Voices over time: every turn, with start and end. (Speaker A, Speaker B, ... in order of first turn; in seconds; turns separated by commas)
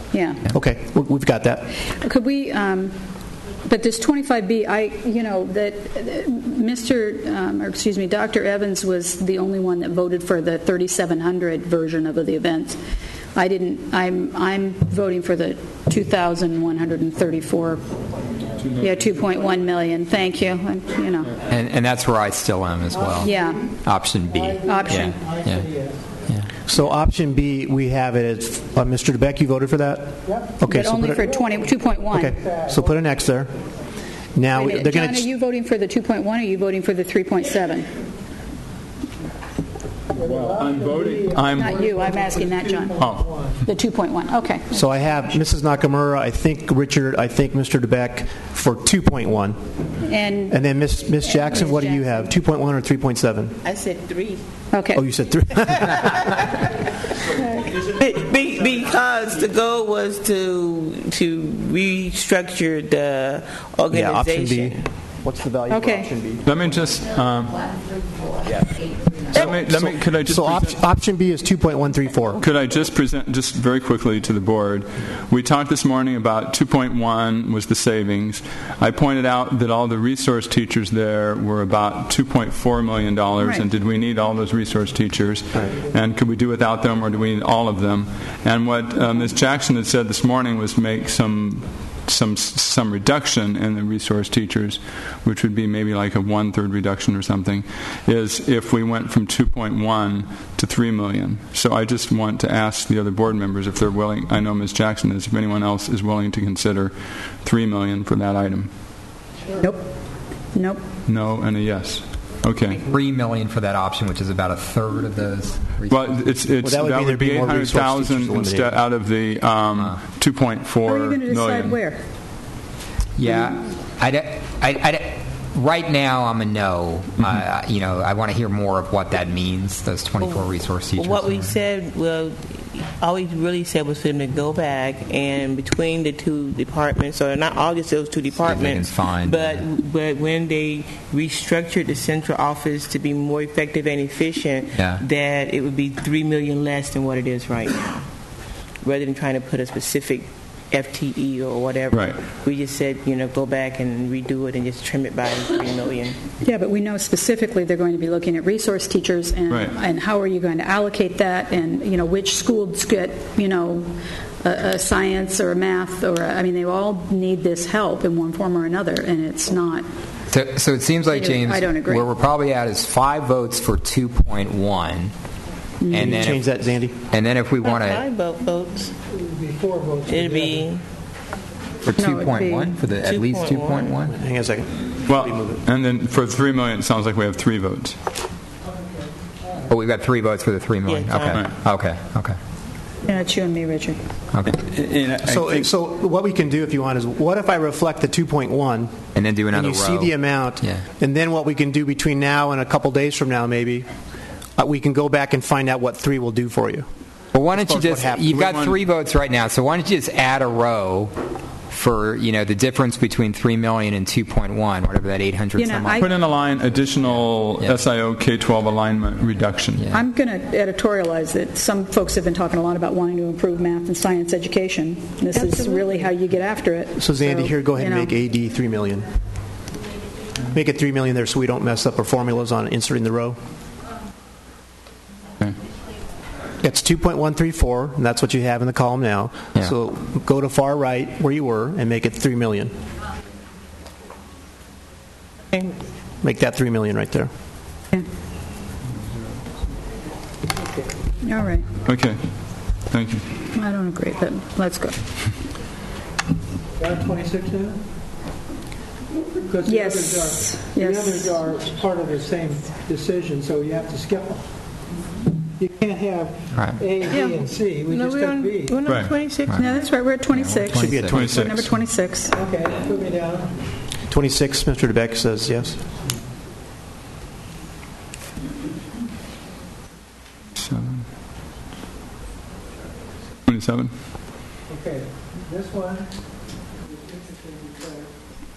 Speaker A: 0.1-0.4, Speaker B: 0.5-1.7, Speaker A: 1.9-3.0, Speaker A: 3.6-12.8, Speaker A: 13.3-17.8, Speaker A: 18.7-21.4, Speaker C: 21.5-25.6, Speaker D: 22.9-23.8, Speaker A: 23.2-23.6, Speaker D: 24.3-26.1, Speaker A: 24.6-25.2, Speaker B: 26.7-31.4, Speaker D: 30.3-30.6, Speaker A: 30.7-32.4, Speaker B: 32.1-33.5, Speaker D: 32.2-32.9, Speaker B: 34.4-35.3, Speaker A: 34.5-37.9, Speaker E: 40.1-41.7, Speaker D: 40.2-43.6, Speaker A: 41.5-43.0, Speaker E: 43.0-43.2, Speaker A: 43.6-45.0, Speaker B: 44.7-49.6, Speaker A: 50.0-50.6, Speaker B: 50.5-53.6, Speaker A: 51.2-52.3, Speaker F: 53.6-54.4, Speaker A: 54.7-55.0, Speaker B: 55.0-56.3, Speaker F: 55.8-56.5, Speaker F: 57.4-64.8, Speaker B: 63.9-66.4, Speaker A: 65.7-66.1, Speaker E: 66.5-67.7, Speaker E: 69.3-70.8, Speaker B: 69.4-72.4, Speaker E: 72.4-108.7, Speaker A: 83.4-83.7, Speaker A: 109.6-109.8, Speaker A: 110.5-110.8, Speaker E: 111.1-112.8, Speaker C: 112.8-116.2, Speaker E: 115.9-121.8, Speaker B: 116.6-118.8, Speaker A: 120.8-122.0, Speaker C: 123.2-131.6, Speaker F: 130.2-148.0, Speaker C: 138.4-139.6, Speaker C: 144.8-145.0, Speaker F: 148.8-156.2, Speaker E: 151.9-152.2, Speaker A: 156.4-163.9, Speaker A: 164.4-169.9, Speaker C: 170.3-175.1, Speaker A: 171.1-172.1, Speaker A: 175.8-176.2, Speaker C: 175.9-176.5, Speaker B: 175.9-177.0, Speaker C: 177.1-178.0, Speaker F: 177.6-178.9, Speaker D: 179.1-180.7, Speaker F: 180.1-180.8, Speaker C: 181.9-184.2, Speaker A: 181.9-182.8, Speaker F: 183.0-184.0, Speaker B: 184.1-185.6, Speaker E: 185.1-188.0, Speaker C: 189.7-192.4, Speaker F: 190.8-191.5, Speaker A: 193.1-194.0, Speaker C: 194.3-194.6, Speaker E: 194.4-195.7, Speaker B: 195.2-199.0, Speaker C: 199.2-200.8, Speaker B: 199.5-203.9, Speaker B: 204.6-206.8, Speaker C: 207.3-211.1, Speaker B: 207.5-208.4, Speaker E: 208.3-208.8, Speaker C: 211.7-216.1, Speaker A: 215.6-216.1, Speaker E: 216.0-219.8, Speaker C: 217.1-217.8, Speaker A: 219.9-228.2, Speaker D: 225.4-225.9, Speaker B: 227.0-229.1, Speaker B: 230.5-233.4, Speaker B: 236.6-242.7, Speaker B: 246.2-247.3, Speaker A: 251.2-251.7, Speaker E: 251.8-252.2, Speaker E: 252.9-253.2, Speaker A: 253.6-255.0, Speaker D: 256.8-257.8, Speaker D: 259.5-264.4, Speaker A: 259.6-261.4, Speaker D: 265.6-268.9, Speaker F: 267.1-269.7, Speaker E: 268.9-269.1, Speaker C: 269.5-269.7, Speaker A: 269.6-272.4, Speaker C: 270.3-271.4, Speaker B: 270.8-271.6, Speaker E: 271.1-271.7, Speaker D: 272.3-273.5, Speaker B: 274.1-275.8, Speaker E: 280.6-281.1, Speaker E: 283.5-283.9, Speaker D: 284.7-286.1, Speaker D: 287.1-288.1